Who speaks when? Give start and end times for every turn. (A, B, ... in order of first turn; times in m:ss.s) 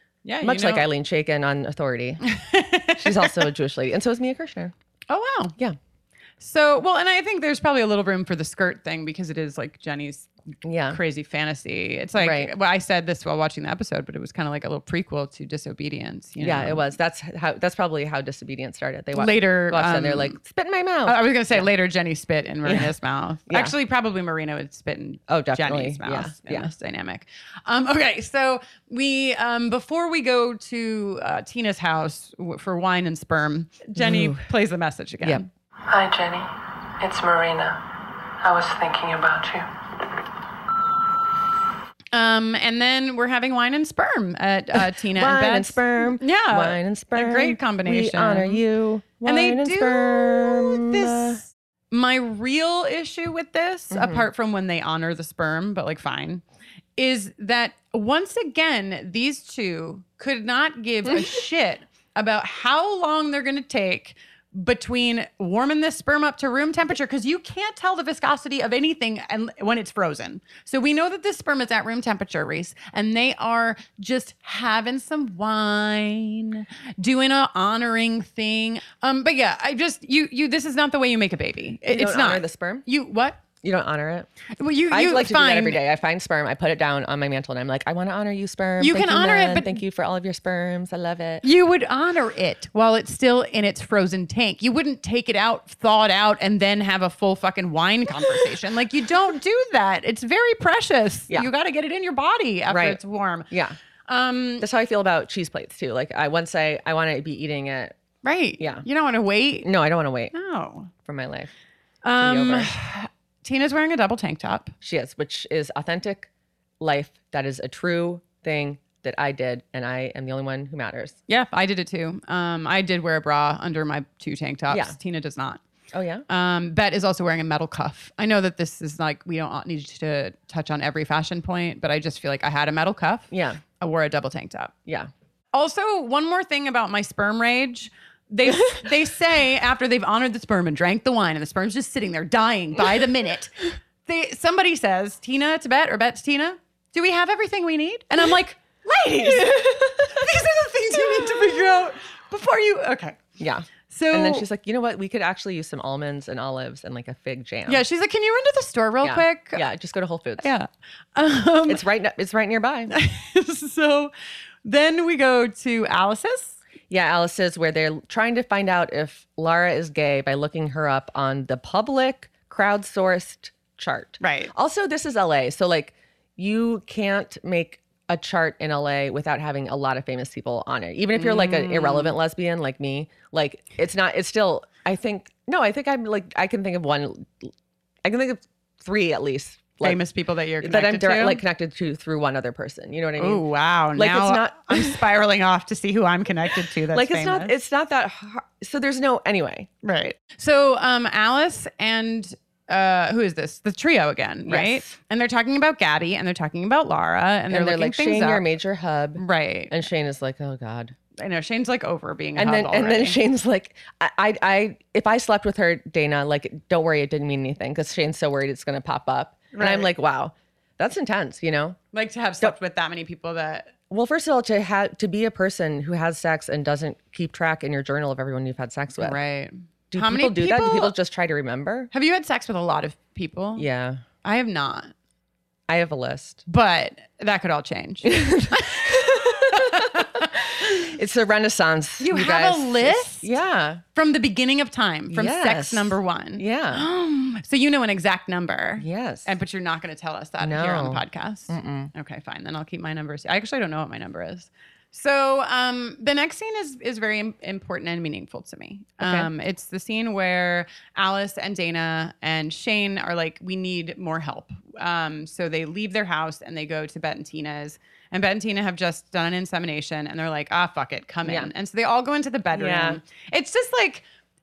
0:00.2-0:00.9 A
0:00.4-0:02.2 B
0:02.2-0:03.4 A
0:03.0-0:04.7 B
0:05.1-0:05.6 A
0:06.4-0:10.3 A
0:10.6-0:11.0 B
0:10.9-0:16.8 A
0:12.2-0:12.5 B
0:16.4-0:21.7 B
0:19.1-0:20.4 A
0:21.0-0:35.5 A
0:22.6-0:22.9 B
0:23.5-0:23.7 B
0:25.3-0:26.7 B
0:34.0-0:34.5 B
0:35.9-0:37.8 C
0:38.4-0:39.7 C
0:42.1-0:48.6 A
0:45.0-0:51.4 B
0:49.2-0:56.4 A
0:53.9-0:54.3 B
0:57.0-1:23.4 A
1:21.8-1:22.8 B
1:23.6-1:24.3 B
1:24.6-1:25.8 A
1:24.9-1:31.4 B
1:28.8-1:29.8 A
1:31.4-1:43.5 A
1:42.7-1:43.8 B
1:44.1-1:44.6 A
1:44.6-1:48.0 B
1:48.2-1:49.7 A
1:48.6-1:48.8 B
1:49.6-1:50.3 B
1:50.3-1:50.9 A
1:51.0-1:51.5 B
1:52.0-1:54.7 A
1:52.2-1:52.8 B
1:54.8-1:56.3 B
1:56.8-2:01.2 B
2:01.3-2:05.6 A
2:04.7-2:05.0 B
2:05.9-2:06.2 B
2:06.3-2:14.7 A
2:13.3-2:13.6 B
2:15.5-2:33.2 A
2:29.1-2:30.3 B
2:33.4-2:37.8 B
2:33.9-2:34.4 A
2:37.7-2:39.6 A
2:39.0-2:40.5 B
2:40.4-2:41.8 A
2:41.7-2:42.9 B
2:42.9-2:44.1 A
2:44.6-2:46.6 A
2:46.9-3:07.5 B
2:54.2-2:54.5 A
3:01.1-3:02.1 A
3:08.0-3:10.0 B
3:09.8-3:11.4 A
3:10.6-3:13.4 B
3:13.2-3:17.5 A
3:13.9-3:15.0 B
3:16.9-3:19.7 B
3:19.8-3:28.4 A
3:24.5-3:24.9 B
3:27.5-3:31.0 B
3:29.2-3:29.7 A
3:31.2-3:33.2 A
3:32.4-3:41.8 B
3:39.5-3:39.9 A
3:41.9-3:43.7 A
3:43.9-3:49.2 B
3:49.0-3:50.9 A
3:49.9-3:51.9 B
3:51.9-3:53.7 A
3:53.6-3:54.0 B
3:54.2-3:54.9 A
3:55.7-3:56.4 B
3:56.5-4:00.8 A
3:58.0-4:03.8 B
4:02.0-4:03.3 A
4:03.9-4:34.0 A
4:05.1-4:06.8 B
4:08.8-4:09.3 B
4:10.4-4:11.9 B
4:19.0-4:19.3 B
4:31.2-4:31.5 B
4:32.5-4:33.0 B